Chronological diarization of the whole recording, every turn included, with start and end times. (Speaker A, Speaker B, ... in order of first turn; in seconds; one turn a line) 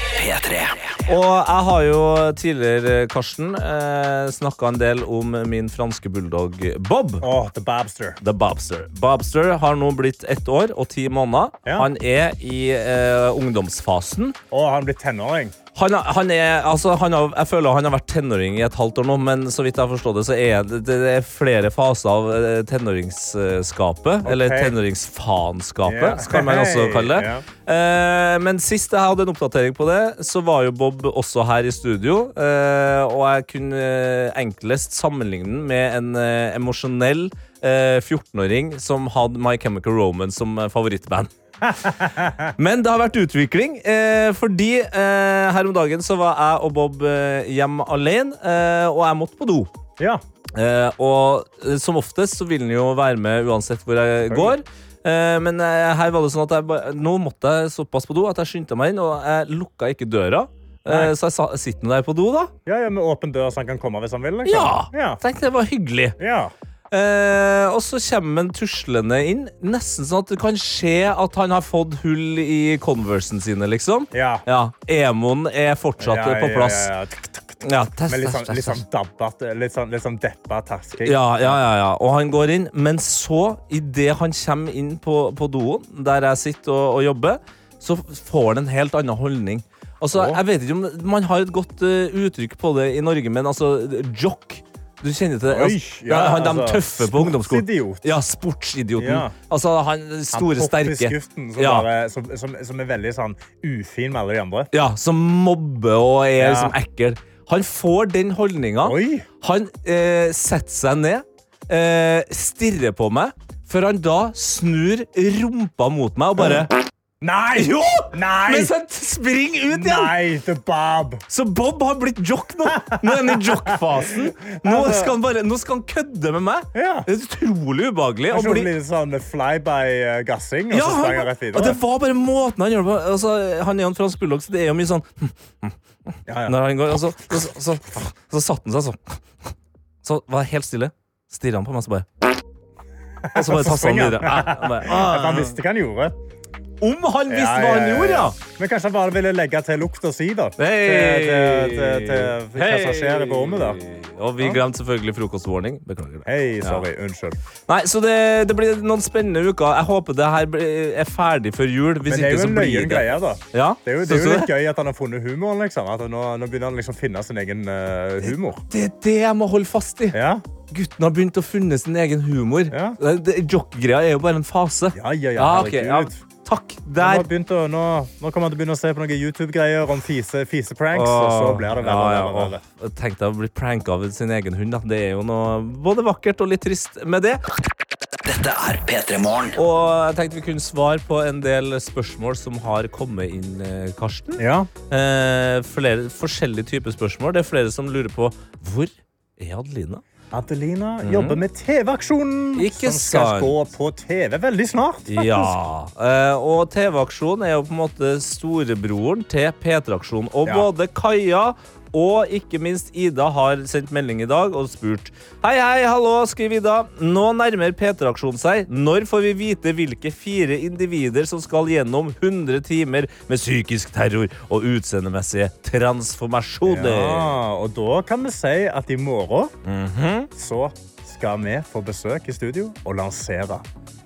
Speaker A: 0.1-1.0
Speaker B: 1.1-7.2
Speaker C: 7.2-8.2
Speaker B: 8.2-14.3
Speaker C: 14.5-15.6
Speaker B: 15.7-41.9
Speaker C: 24.2-24.8
Speaker C: 25.8-27.4
Speaker C: 41.6-42.5
Speaker B: 42.6-49.7
Speaker B: 50.5-62.5
Speaker C: 54.2-54.6
Speaker C: 60.9-61.1
Speaker C: 62.6-65.2
Speaker B: 64.4-66.2
Speaker C: 66.2-66.5
Speaker B: 66.9-76.9
Speaker C: 74.1-74.4
Speaker C: 76.0-81.6
Speaker B: 77.6-78.8
Speaker B: 81.0-101.9
Speaker C: 90.1-90.4
Speaker C: 95.5-98.1
Speaker C: 99.0-99.3
Speaker C: 100.3-104.7
Speaker B: 104.7-116.7
Speaker C: 106.4-106.7
Speaker C: 108.8-109.3
Speaker C: 117.2-118.7
Speaker B: 117.5-120.2
Speaker C: 119.7-121.2
Speaker B: 121.3-128.7
Speaker C: 122.7-125.1
Speaker C: 126.7-127.1
Speaker C: 128.3-131.8
Speaker B: 130.7-135.8
Speaker C: 136.3-136.6
Speaker B: 136.4-139.5
Speaker B: 140.0-142.1
Speaker C: 143.2-146.1
Speaker B: 143.3-145.6
Speaker B: 146.8-148.3
Speaker C: 147.3-153.8
Speaker B: 150.6-156.8
Speaker C: 156.2-157.4
Speaker B: 157.7-164.5
Speaker C: 162.1-168.6
Speaker B: 168.2-177.3
Speaker C: 170.1-170.4
Speaker C: 172.7-173.0
Speaker C: 174.9-176.2
Speaker C: 177.0-182.6
Speaker B: 180.9-187.4
Speaker A: 188.2-189.6
Speaker B: 189.6-200.0
Speaker C: 194.4-194.7
Speaker C: 200.3-205.5
Speaker B: 201.0-201.4
Speaker B: 202.6-203.5
Speaker B: 205.1-227.4
Speaker C: 226.6-229.5
Speaker B: 229.6-230.3
Speaker C: 230.3-233.6